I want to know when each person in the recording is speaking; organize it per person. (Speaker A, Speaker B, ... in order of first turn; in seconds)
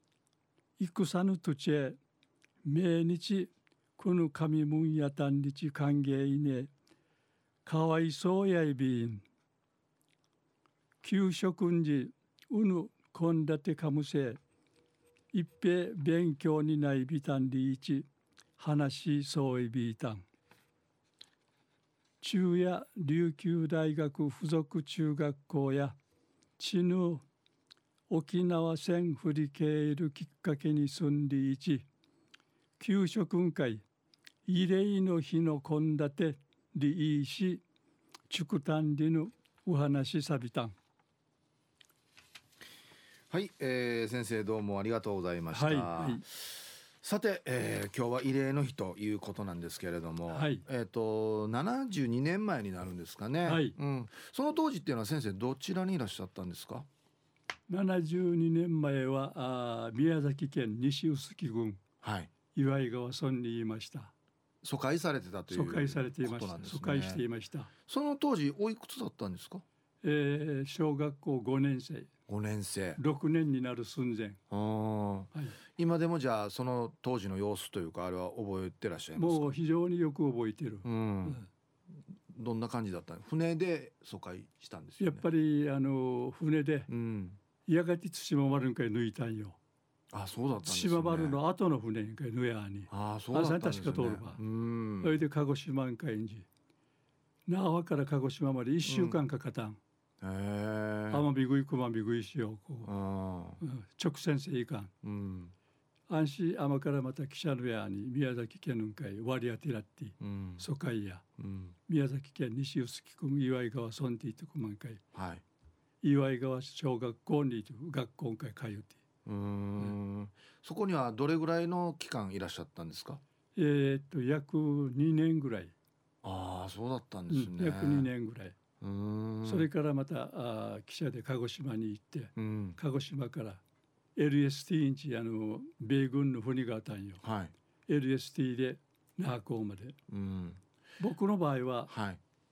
Speaker A: 0.8-2.0, 2.6-6.7, 7.7-9.2, 11.0-14.4, 15.3-18.1, 18.6-20.2, 22.2-26.0, 26.6-27.2, 28.1-31.9, 32.8-33.8, 34.5-37.6, 38.3-40.7, 45.5-46.2, 50.3-50.6, 53.5-53.8, 57.7-61.8, 62.5-64.1, 65.5-67.7, 70.0-72.1, 73.0-74.4, 79.2-81.4, 85.0-86.9, 87.7-89.6, 90.7-94.4, 95.0-96.5, 97.5-99.8, 101.1-102.9, 103.6-104.9, 106.1-111.2, 111.9-115.0, 116.0-119.0, 123.6-125.7, 127.3-128.6, 129.4-133.6, 134.2-137.2, 137.9-140.0, 141.0-141.9
Speaker B: 43.3-56.9, 62.0-62.3, 64.6-67.2, 67.9-69.6, 72.3-73.0, 74.5-79.5, 80.8-81.4, 82.3-85.2, 86.9-87.4, 90.1-91.4, 92.9-95.2, 98.8-99.2, 100.2-101.3, 102.8-103.6, 105.0-105.5, 110.2-110.7, 111.4-111.7, 115.1-115.4, 119.3-123.2, 126.2-128.1, 128.8-129.7, 132.4-132.8, 137.2-137.5, 140.1-140.6, 141.9-142.2